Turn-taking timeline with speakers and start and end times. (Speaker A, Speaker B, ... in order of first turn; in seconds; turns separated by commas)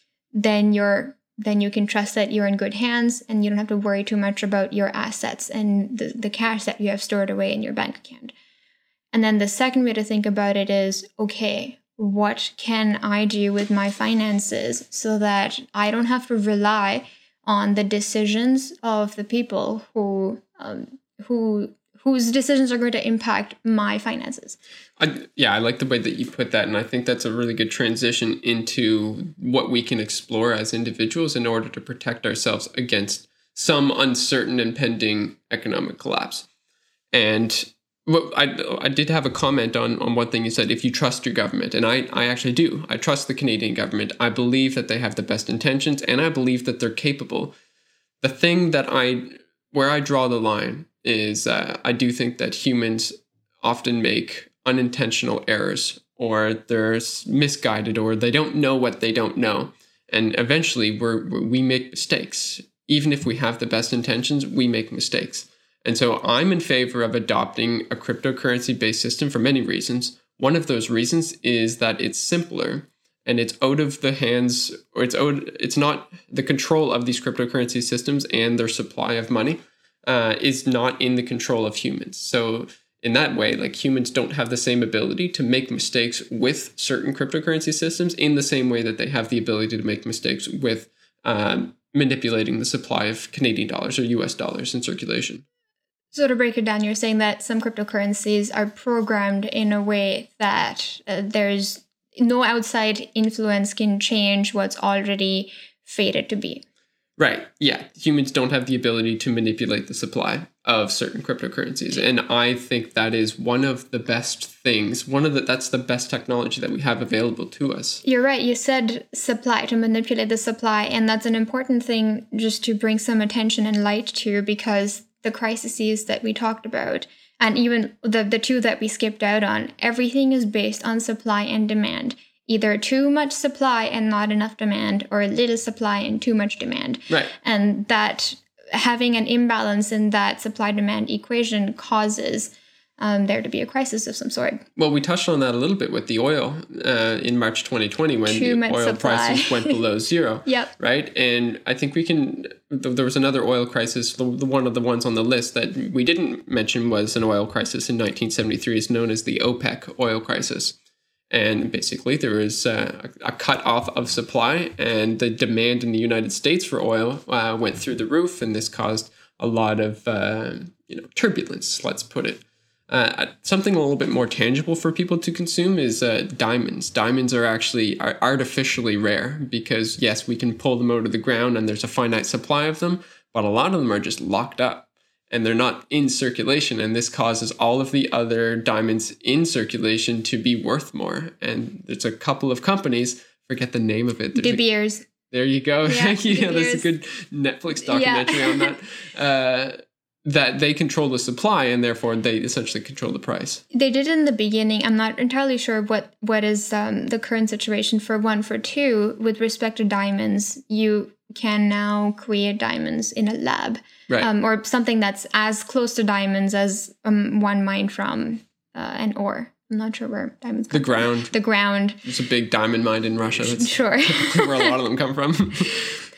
Speaker A: 0.3-8.3, Speaker A: 9.1-24.6, Speaker B: 25.0-36.5, Speaker B: 37.1-47.5, Speaker B: 48.2-95.4, Speaker A: 96.1-106.6, Speaker B: 107.2-118.0, Speaker A: 118.0-144.6, Speaker B: 144.8-160.8, Speaker A: 148.2-149.8, Speaker A: 150.5-150.7, Speaker B: 161.3-194.6, Speaker A: 194.3-195.1, Speaker B: 195.3-203.6, Speaker A: 195.8-196.9, Speaker A: 197.8-198.7, Speaker A: 203.7-222.0, Speaker B: 220.7-221.3, Speaker B: 222.0-226.0, Speaker A: 223.5-224.7